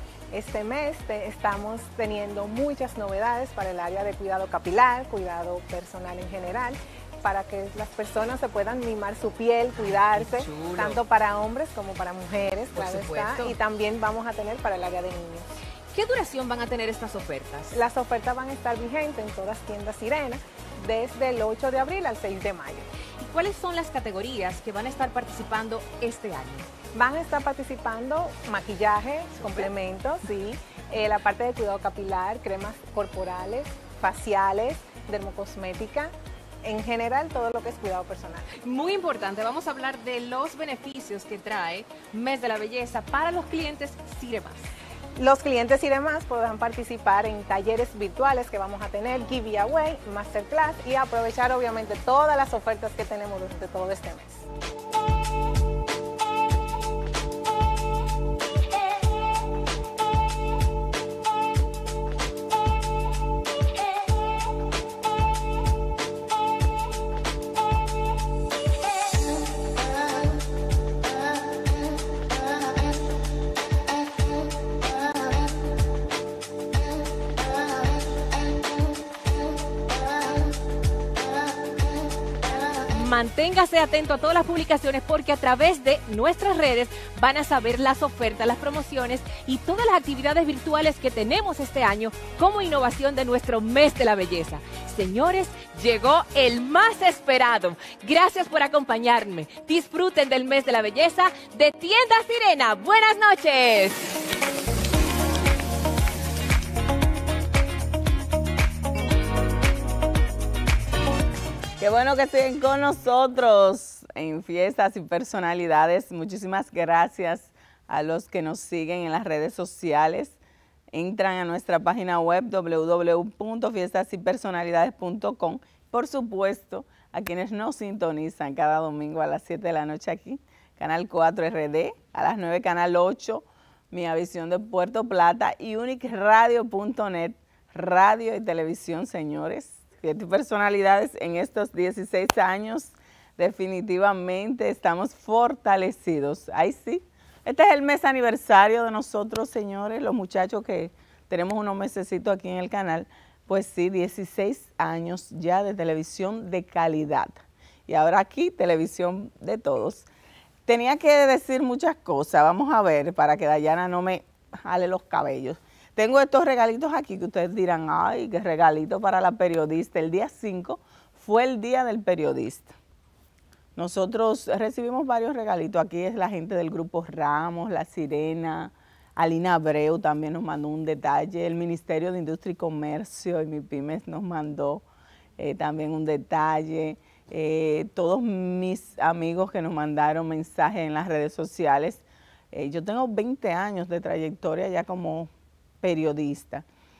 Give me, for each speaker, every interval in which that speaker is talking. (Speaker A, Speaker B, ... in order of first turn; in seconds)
Speaker A: 0.3-15.5, 17.7-22.9, 26.9-36.1, 36.6-38.5, 45.2-54.5
Speaker B: 9.8-11.0, 12.7-13.6, 15.9-17.8, 23.2-26.7, 38.5-44.7, 82.9-104.2
Speaker C: 111.8-120.4, 120.9-160.1, 160.7-172.7, 173.8-184.8, 185.4-195.3, 195.8-196.6